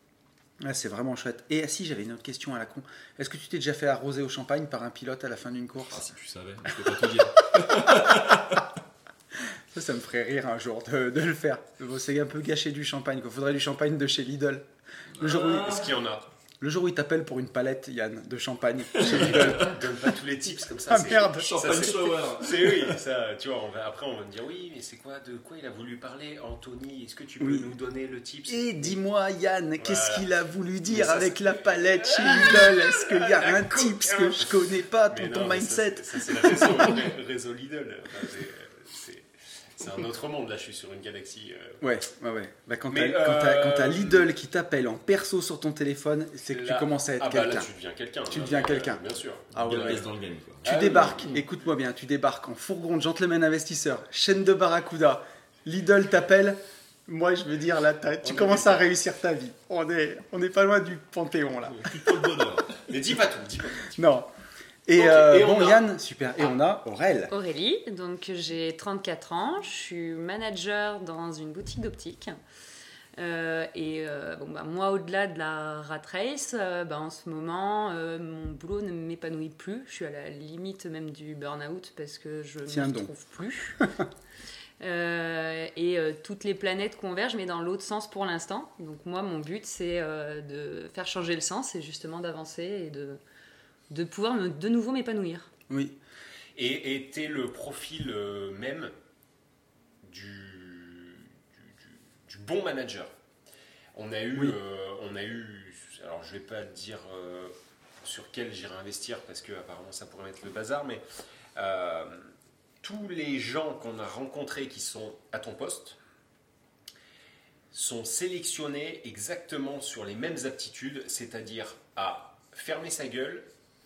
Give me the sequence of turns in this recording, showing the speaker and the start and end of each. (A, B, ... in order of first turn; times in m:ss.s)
0:00.6-0:06.0 A
0:05.9-0:08.6 B
0:07.9-0:08.2 A
0:09.7-0:14.6 A
0:15.1-0:15.9 B
0:15.2-0:15.8 A
0:15.4-0:16.2 C
0:16.6-0:19.8 A
0:18.9-0:19.7 B
0:19.0-0:29.0 C
0:20.8-0:21.9 A
0:21.0-0:22.9 B
0:27.4-0:27.7 A
0:28.5-0:37.0 A
0:29.8-0:30.2 C
0:30.8-0:41.8 C
0:41.8-0:47.7 A
0:42.9-0:44.3 C
0:46.5-0:50.1 C
0:48.3-0:50.0 A
0:49.6-0:50.7 B
0:50.6-0:51.4 C
0:50.6-1:01.9 A
0:58.2-0:58.8 C
1:01.7-1:02.8 B
1:02.9-1:03.9 C
1:03.9-1:04.3 A
1:04.8-1:07.3 A
1:05.0-1:06.6 C
1:07.3-1:12.3 D
1:13.2-1:23.8 D
1:22.7-1:23.1 A
1:24.8-1:33.2 D
1:33.9-1:35.5 D
1:35.7-1:35.9 A
1:36.5-1:38.9 C
1:40.0-1:43.1 C
1:43.9-1:51.0 C
1:51.6-1:52.3 C
1:52.8-1:56.0 C
1:57.7-2:03.5 C